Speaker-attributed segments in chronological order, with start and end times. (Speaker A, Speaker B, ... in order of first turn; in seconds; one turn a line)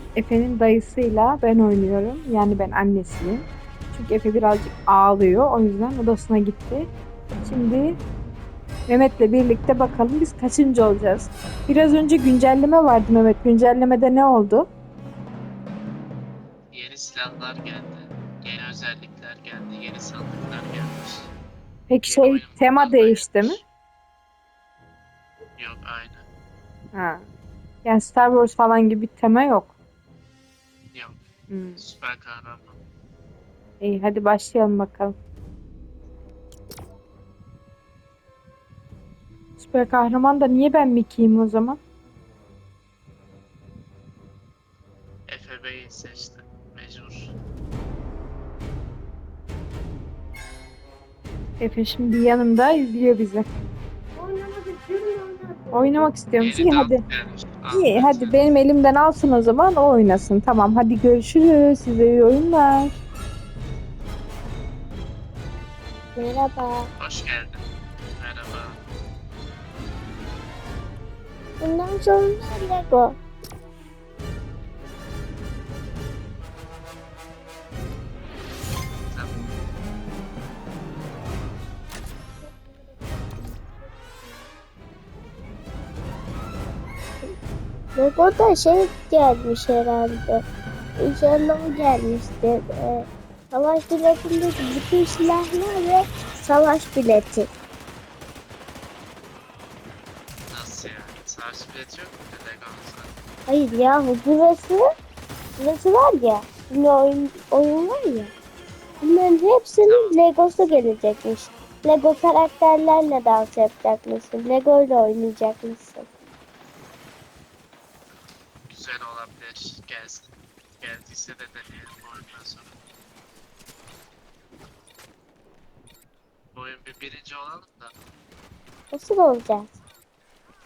Speaker A: 0.2-8.0
Speaker A: 8.9-14.7
Speaker B: 16.7-21.3
Speaker A: 21.9-23.6
Speaker B: 22.0-23.6
Speaker B: 25.6-26.2
Speaker A: 26.9-27.2
Speaker A: 27.8-29.7
Speaker A: 31.5-31.8
Speaker B: 31.8-32.8
Speaker A: 33.8-35.1
Speaker A: 39.6-41.8
Speaker B: 45.3-47.3
Speaker A: 51.6-53.5
Speaker C: 54.1-56.1
Speaker A: 55.7-57.0
Speaker B: 56.4-58.5
Speaker A: 57.7-63.0
Speaker C: 66.2-66.9
Speaker B: 67.0-67.6
Speaker B: 68.2-68.8
Speaker C: 71.6-73.2
Speaker B: 79.1-79.5
Speaker C: 88.0-90.4
Speaker B: 88.2-88.8
Speaker C: 91.0-97.5
Speaker B: 100.5-103.2
Speaker C: 103.5-104.8
Speaker C: 105.6-108.3
Speaker C: 109.0-116.1
Speaker B: 109.8-110.7
Speaker B: 118.7-122.8
Speaker B: 126.5-127.9
Speaker C: 128.9-129.8